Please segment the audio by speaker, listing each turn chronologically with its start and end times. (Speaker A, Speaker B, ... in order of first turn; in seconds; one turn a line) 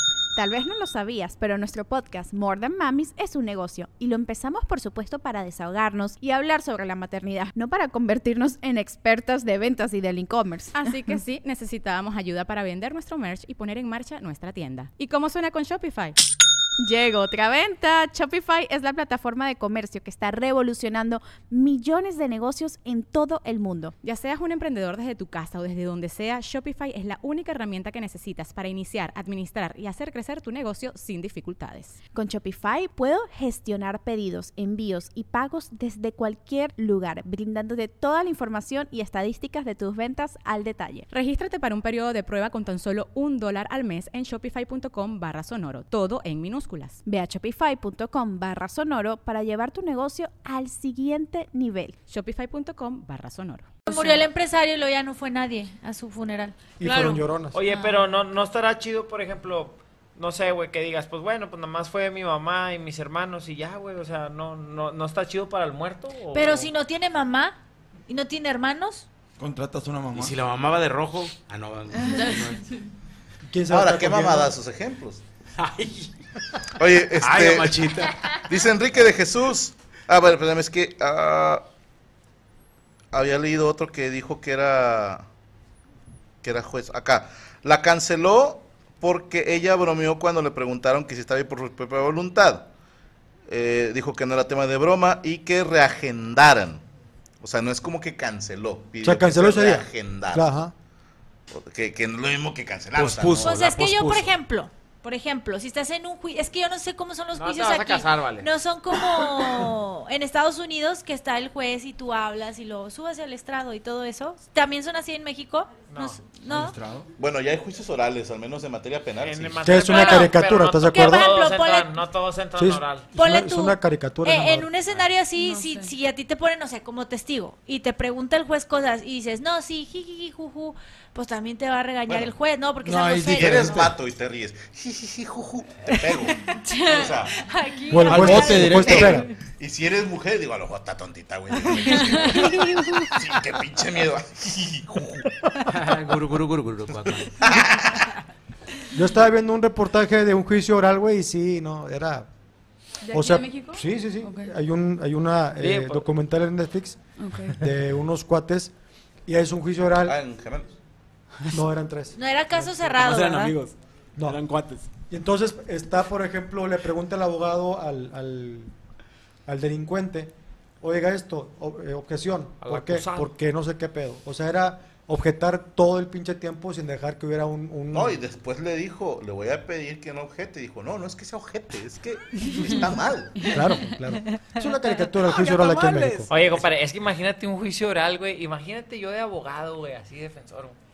Speaker A: 0.3-11.2
Speaker B: 10.7-16.2
Speaker A: 16.8-23.9
Speaker B: 24.0-32.0
Speaker A: 32.1-41.1
Speaker B: 41.1-47.0
Speaker A: 47.0-52.0
Speaker B: 52.1-53.7
Speaker C: 53.9-56.7
Speaker D: 53.9-54.3
Speaker E: 56.8-57.6
Speaker D: 56.8-57.2
Speaker F: 57.5-66.7
Speaker C: 57.7-58.0
Speaker C: 66.3-67.6
Speaker C: 68.1-69.1
Speaker G: 69.4-70.3
Speaker H: 70.1-72.6
Speaker E: 73.5-74.5
Speaker I: 73.7-75.2
Speaker H: 75.6-76.0
Speaker I: 76.7-81.6
Speaker H: 77.2-78.3
Speaker I: 83.1-85.2
Speaker I: 86.4-92.7
Speaker I: 93.5-96.8
Speaker I: 97.4-100.5
Speaker E: 99.0-100.7
Speaker I: 101.5-103.6
Speaker H: 102.9-104.3
Speaker C: 103.4-116.7
Speaker F: 107.3-108.5
Speaker F: 115.9-116.2
Speaker G: 116.4-117.1
Speaker I: 117.2-119.9
Speaker F: 119.2-123.1
Speaker E: 119.6-121.3
Speaker C: 119.9-120.3
Speaker C: 120.9-121.9
Speaker E: 122.5-124.7
Speaker C: 123.1-133.9
Speaker D: 125.3-125.9
Speaker I: 132.1-132.3
Speaker G: 132.8-133.9
Speaker I: 133.2-137.4
Speaker C: 136.5-138.9
Speaker D: 137.7-138.0
Speaker E: 137.9-139.3
Speaker G: 138.0-139.2
Speaker I: 138.8-145.3
Speaker H: 145.7-147.3
Speaker I: 147.4-148.0
Speaker E: 148.9-152.3
Speaker D: 153.0-154.5
Speaker E: 153.1-158.7
Speaker F: 155.6-156.0
Speaker D: 157.2-157.6
Speaker E: 159.3-160.2
Speaker I: 160.0-160.7
Speaker E: 161.5-162.9
Speaker C: 162.2-163.6
Speaker H: 162.9-164.9
Speaker E: 165.1-168.7
Speaker E: 169.5-178.2
Speaker F: 172.6-173.3
Speaker I: 177.9-183.4
Speaker E: 183.5-186.3
Speaker D: 183.5-183.9
Speaker H: 185.0-186.6
Speaker F: 186.3-190.8